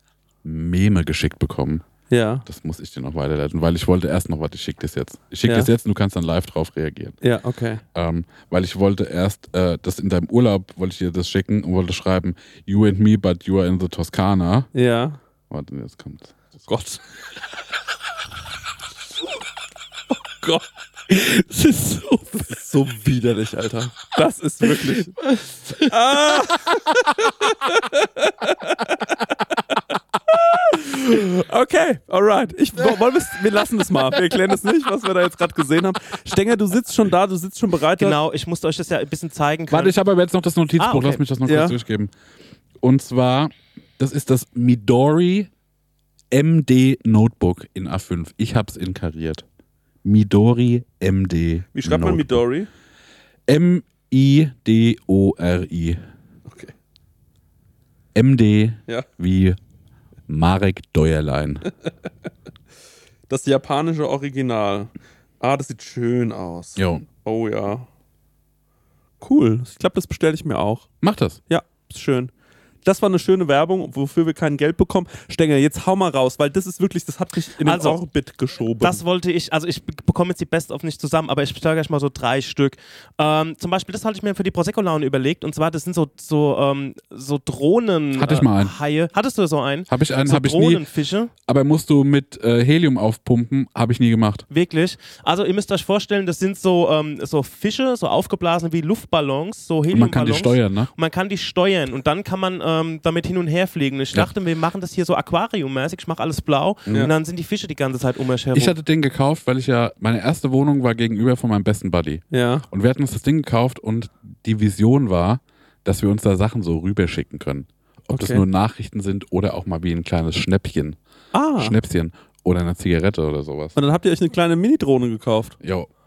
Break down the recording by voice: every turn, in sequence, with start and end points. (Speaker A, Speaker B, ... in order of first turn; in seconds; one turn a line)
Speaker A: 0.4-1.9
Speaker B: 2.1-2.4
Speaker A: 2.5-7.2
Speaker B: 5.5-5.7
Speaker B: 7.2-7.8
Speaker A: 7.9-14.7
Speaker B: 14.7-15.2
Speaker A: 15.5-16.5
Speaker B: 16.7-17.0
Speaker B: 20.3-25.2
Speaker B: 25.8-29.0
Speaker B: 30.3-38.2
Speaker C: 38.0-40.0
Speaker A: 39.7-42.1
Speaker C: 40.8-41.2
Speaker B: 41.5-41.8
Speaker A: 42.8-45.5
Speaker A: 46.3-49.4
Speaker A: 50.0-52.4
Speaker B: 51.7-52.7
Speaker A: 53.5-56.0
Speaker B: 56.5-56.7
Speaker A: 58.1-59.6
Speaker A: 60.3-61.7
Speaker B: 63.3-67.9
Speaker A: 66.8-67.1
Speaker B: 69.2-70.9
Speaker A: 71.0-71.4
Speaker B: 71.5-72.3
Speaker B: 72.8-79.0
Speaker C: 77.6-78.0
Speaker C: 78.8-91.3
Speaker A: 88.2-88.8
Speaker A: 89.9-90.8
Speaker A: 91.5-94.5
Speaker C: 94.5-108.7
Speaker A: 99.9-100.9
Speaker A: 108.5-121.0
Speaker B: 112.3-112.7
Speaker B: 118.1-118.4
Speaker B: 121.3-121.8
Speaker A: 121.6-123.8
Speaker B: 123.8-125.6
Speaker A: 125.6-125.9